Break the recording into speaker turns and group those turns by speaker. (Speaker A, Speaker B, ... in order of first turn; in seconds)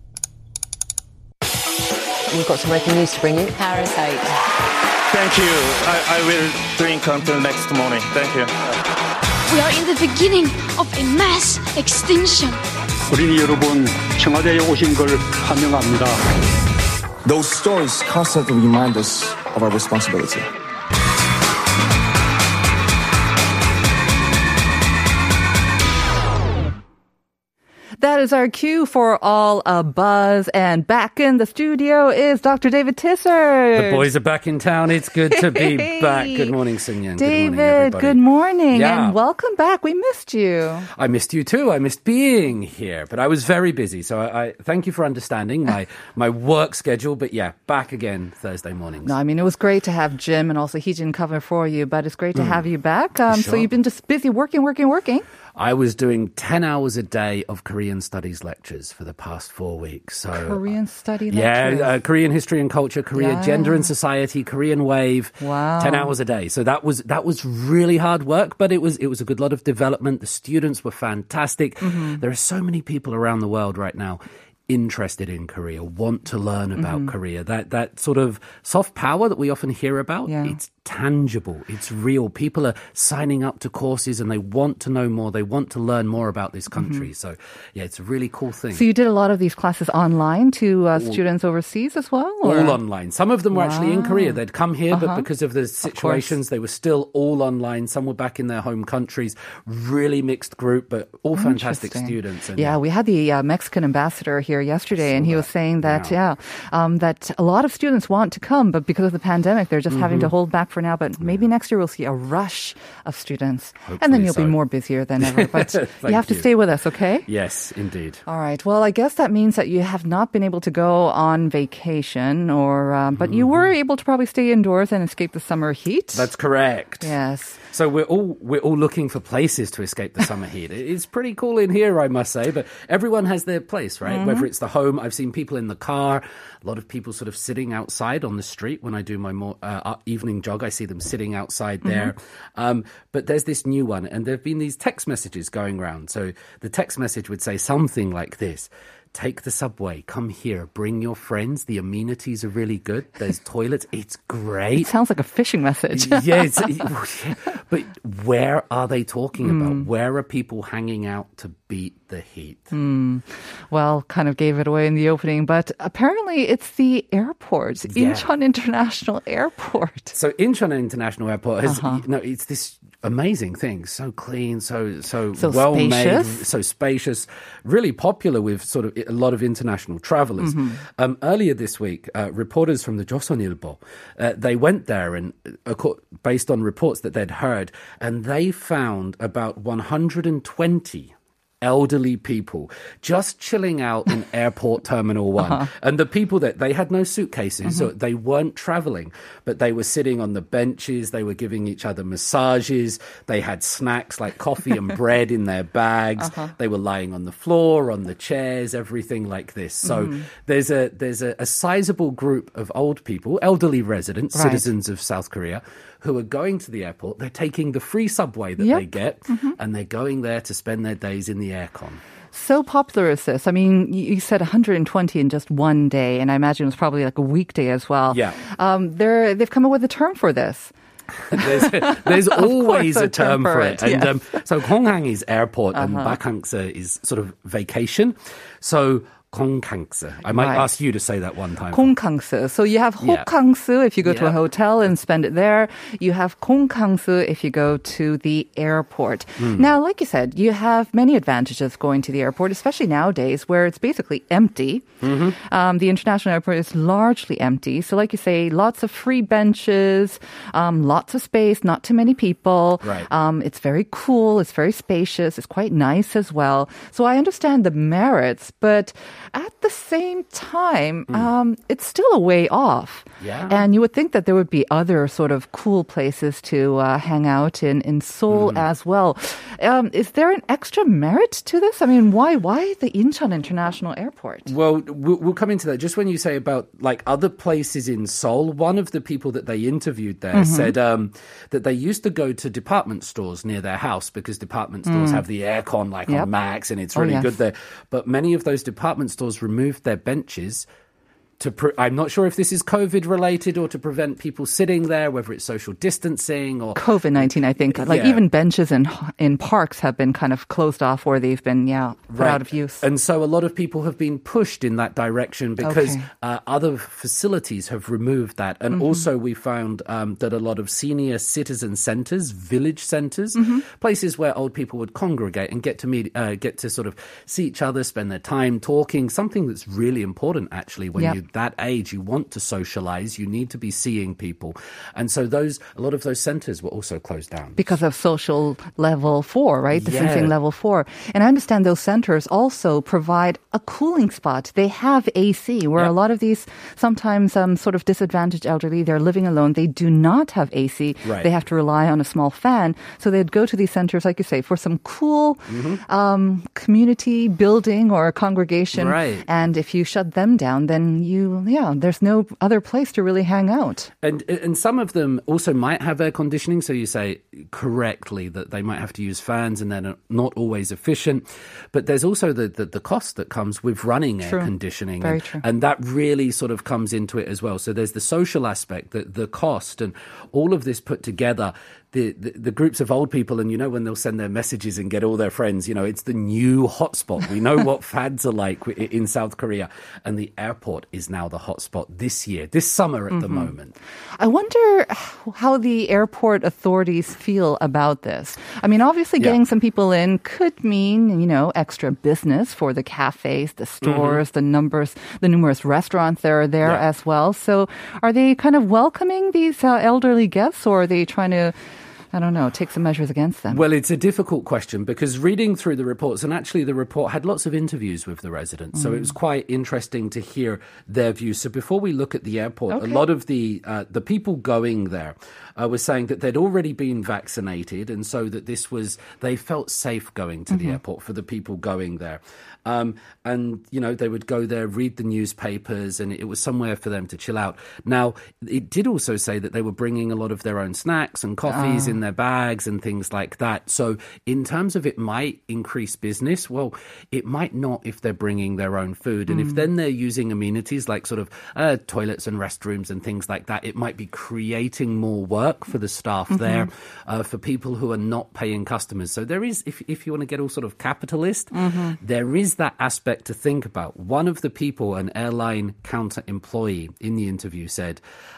Speaker A: 2.3-4.3
Speaker B: 5.1-8.5
Speaker C: 9.5-12.6
Speaker D: 13.1-16.1
Speaker E: 17.2-20.5
Speaker F: 28.0-34.1, 35.3-36.5, 37.2-40.9, 49.0-55.3, 60.3-62.0, 63.1-63.9, 65.4-66.1, 71.8-72.2, 76.8-77.1, 80.3-80.6, 86.7-87.1, 88.7-92.8, 93.5-95.3, 95.8-96.4, 101.3-117.3, 118.3-126.3, 127.0-127.6, 134.1-134.5, 141.8-142.1, 154.8-156.9, 159.4-159.9, 162.7-170.2, 171.6-172.0, 175.4-176.4, 180.4-180.8, 195.4-195.7, 206.2-206.5, 209.8-210.3, 214.3-214.7, 218.6-219.6, 222.3-230.7, 231.3-234.4, 235.7-236.2, 240.3-240.7, 241.7-284.5, 290.3-290.8, 294.9-295.2, 296.9-297.4, 306.8-312.9, 315.6-316.1, 318.8-319.1, 323.4-323.6, 337.6-363.9, 374.2-375.4, 393.1-393.5, 394.2-411.6, 412.1-413.6, 422.7-423.1, 430.5-430.8, 441.5-442.0, 449.3-449.6, 456.3-456.7, 461.5-462.0
Speaker G: 33.7-38.2, 38.7-39.2, 40.9-49.1, 52.4-52.6, 53.3-53.7, 55.6-60.6, 61.3-88.8, 91.0-91.2, 92.4-102.8, 104.9-106.2, 109.9-110.3, 113.9-114.6, 115.2-116.5, 117.3-118.2, 123.1-123.7, 126.1-127.2, 127.7-154.9, 155.9-162.7, 167.9-168.3, 170.1-222.0, 228.1-228.4, 231.2-241.9, 243.0-243.3, 244.0-244.4, 249.4-249.7, 255.0-255.4, 262.8-263.1, 273.2-273.7, 278.3-278.6, 284.5-300.7, 301.4-308.2, 312.1-337.8, 339.7-340.4, 351.1-351.3, 355.5-355.8, 358.7-359.3, 364.0-393.8, 403.8-404.2, 413.5-468.0